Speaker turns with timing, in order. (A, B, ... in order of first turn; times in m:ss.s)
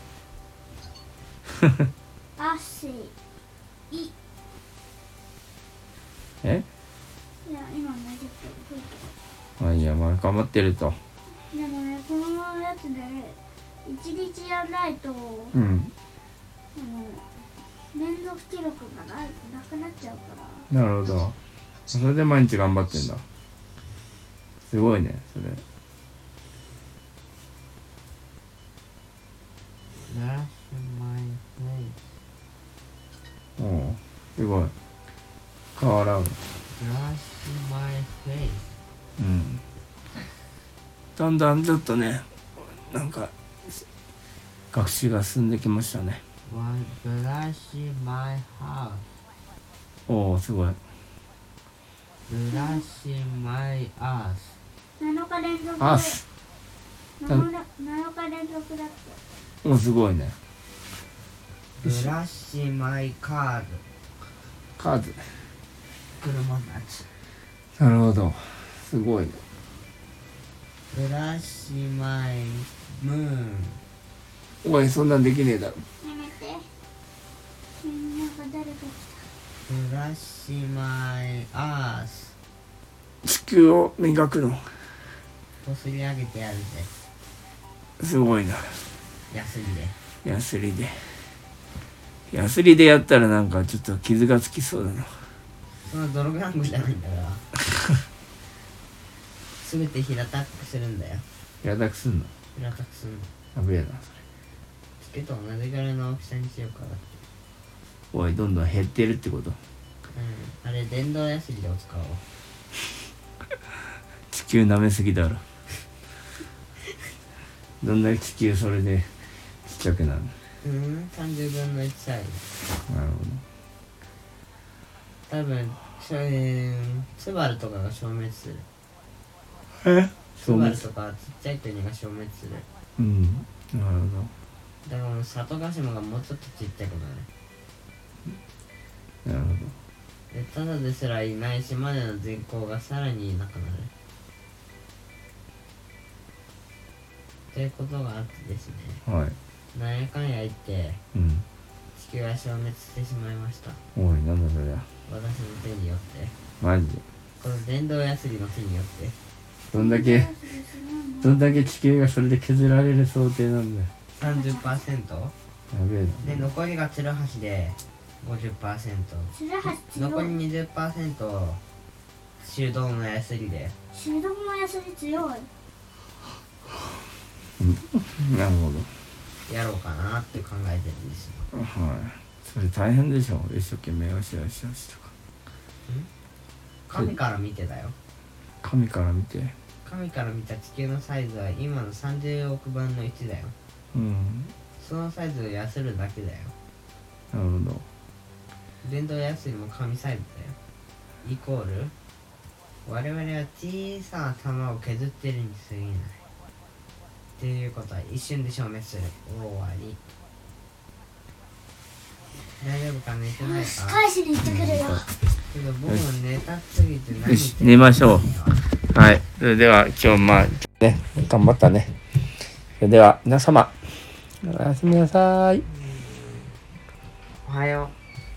0:02.4-0:03.2 A
0:07.4-0:09.1 A
0:09.6-0:11.0 B
0:11.5-0:15.6 A
0:15.5-0:15.9 B
0:16.8-0:17.2 A
0:17.9-0:20.7 A
0:20.7-0:21.4 B
0:21.9-0:23.2 B
0:24.6-0:25.6 B
0:30.1-0:32.0 C
0:33.6-0:34.7 B
0:35.8-0:36.4 B
0:36.7-0:38.7 C
0:39.2-0:39.6 B
0:41.2-0:43.8 B
0:44.7-0:46.2 B
0:46.5-0:49.1 C
0:50.1-0:50.8 B
0:52.3-0:54.6 C
0:52.5-0:52.8 A
0:55.0-0:56.2 A
0:55.8-0:56.2 B
0:57.2-0:59.2 A
0:59.6-1:00.4 B
1:01.8-1:03.8 C
1:04.8-1:05.2 B
1:06.2-1:07.1 C
1:07.8-1:09.4 B
1:10.9-1:13.8 C
1:14.6-1:15.8 B
1:16.0-1:16.7 A
1:17.8-1:19.2 A
1:19.7-1:22.3 C
1:23.2-1:24.7 B
1:25.6-1:26.9 C
1:28.0-1:28.8 B
1:29.3-1:30.0 C
1:30.2-1:31.2 B
1:32.3-1:35.3 B
1:35.8-1:37.5 C
1:39.6-1:41.3 C
1:41.6-1:42.3 B
1:42.5-1:43.3 C
1:43.5-1:44.2 B
1:45.0-1:47.2 C
1:48.1-1:49.6 B
1:50.1-1:52.2 C
1:54.3-1:55.4 B
1:57.8-1:59.1 B
1:59.6-2:00.3 B
2:00.6-2:02.4 C
2:02.9-2:03.4 B
2:05.3-2:08.7 C
2:09.8-2:10.8 B
2:10.4-2:12.6 C
2:13.0-2:14.3 B
2:14.8-2:17.3 C
2:19.2-2:19.7 B
2:20.3-2:23.9 C
2:27.5-2:29.0 C
2:29.1-2:29.4 B
2:29.7-2:31.0 C
2:31.1-2:31.5 B
2:32.0-2:33.8 C
2:34.0-2:34.8 B
2:35.1-2:36.3 C
2:36.6-2:37.0 B
2:37.4-2:39.2 C
2:39.7-2:40.3 B
2:39.7-2:41.7 A
2:41.2-2:43.9 B
2:44.2-2:45.3 C
2:44.2-2:44.8 A
2:45.7-2:46.4 B
2:46.2-2:51.6 C
2:49.3-2:50.4 A
2:52.4-2:53.8 C
2:53.9-2:55.5 A
2:57.6-2:58.9 B
2:59.5-3:01.5 C
3:01.5-3:05.1 B
3:06.9-3:08.0 C
3:08.6-3:09.5 B
3:09.8-3:13.5 C
3:13.9-3:14.5 B
3:14.8-3:16.5 C
3:17.3-3:17.8 B
3:18.8-3:20.6 C
3:21.2-3:21.9 C
3:22.8-3:26.2 C
3:27.4-3:30.0 C
3:32.6-3:34.0 C
3:33.4-3:35.1 A
3:34.4-3:35.0 B
3:35.5-3:38.6 C
3:37.2-3:38.3 B
3:38.8-3:42.0 B
3:42.8-3:45.7 B
3:45.8-3:46.4 C
3:47.4-3:48.0 C